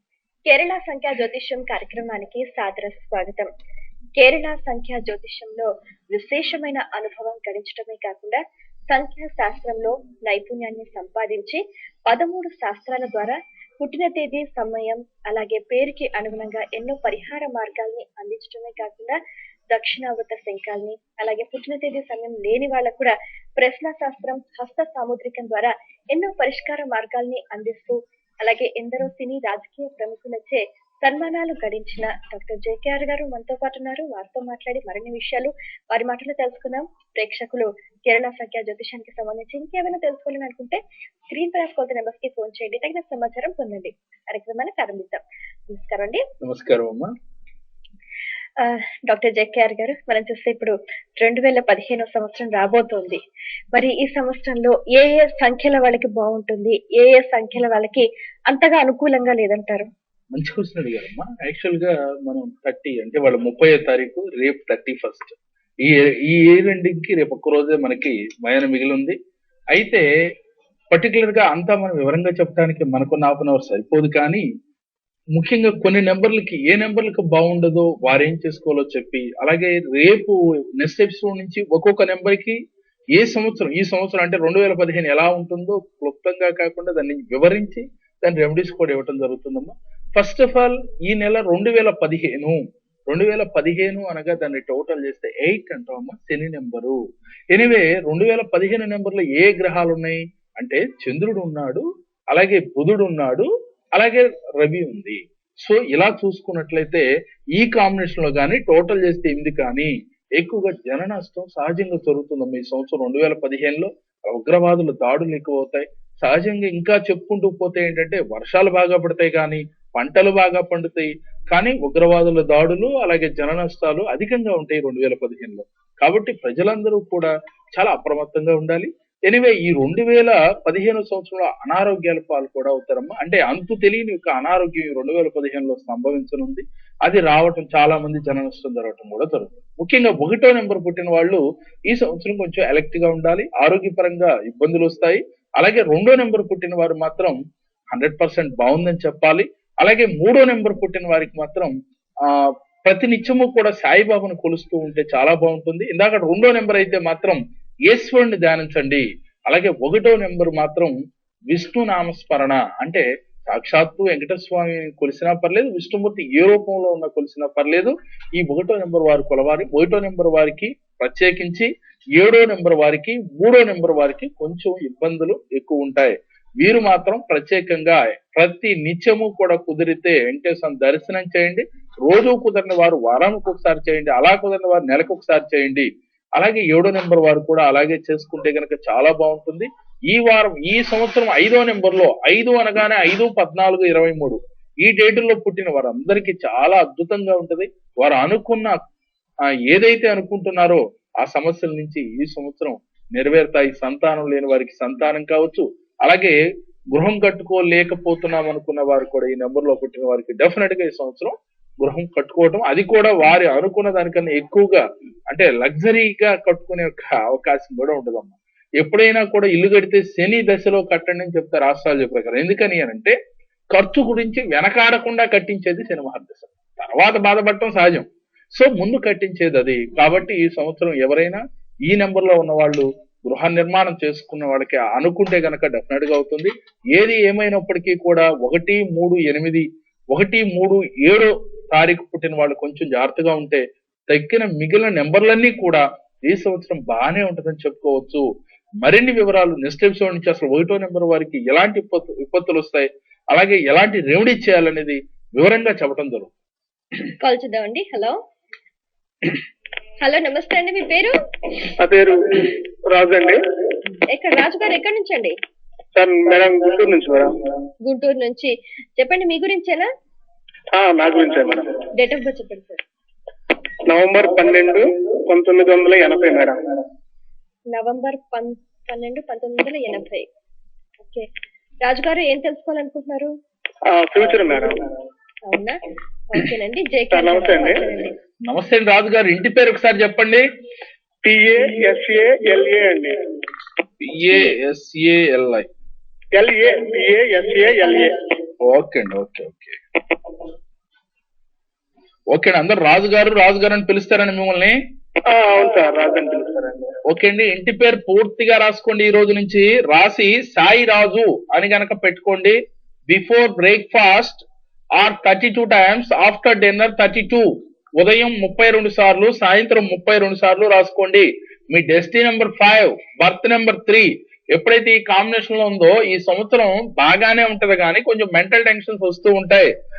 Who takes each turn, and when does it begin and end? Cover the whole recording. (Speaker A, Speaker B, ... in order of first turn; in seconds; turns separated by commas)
Speaker A: 0.5-3.5, Speaker A: 4.2-19.2, Speaker A: 19.7-40.8, Speaker A: 41.3-46.2, Speaker B: 46.4-47.1, Speaker A: 48.6-53.2, Speaker A: 53.7-59.9, Speaker B: 60.3-69.2, Speaker B: 69.7-70.0, Speaker B: 70.9-74.4, Speaker B: 75.3-82.6, Speaker B: 83.1-97.0, Speaker B: 97.5-147.4, Speaker B: 147.9-160.9, Speaker B: 161.5-198.8, Speaker B: 199.7-206.4, Speaker B: 206.9-223.1, Speaker B: 223.7-248.2, Speaker B: 248.8-256.3, Speaker A: 257.2-258.1, Speaker A: 260.0-261.1, Speaker C: 261.8-263.4, Speaker A: 264.1-265.3, Speaker C: 265.9-267.4, Speaker A: 267.8-269.9, Speaker C: 270.7-271.7, Speaker A: 271.9-272.8, Speaker C: 273.9-276.6, Speaker A: 277.7-280.3, Speaker A: 281.8-283.3, Speaker C: 283.9-284.8, Speaker A: 285.4-285.8, Speaker A: 286.3-288.1, Speaker C: 287.1-287.8, Speaker B: 288.5-290.4, Speaker C: 291.2-293.2, Speaker B: 294.0-295.7, Speaker C: 296.3-298.1, Speaker B: 298.6-299.8, Speaker B: 302.3-304.8, Speaker C: 305.2-306.9, Speaker B: 307.1-312.6, Speaker B: 313.1-314.4, Speaker B: 314.9-329.7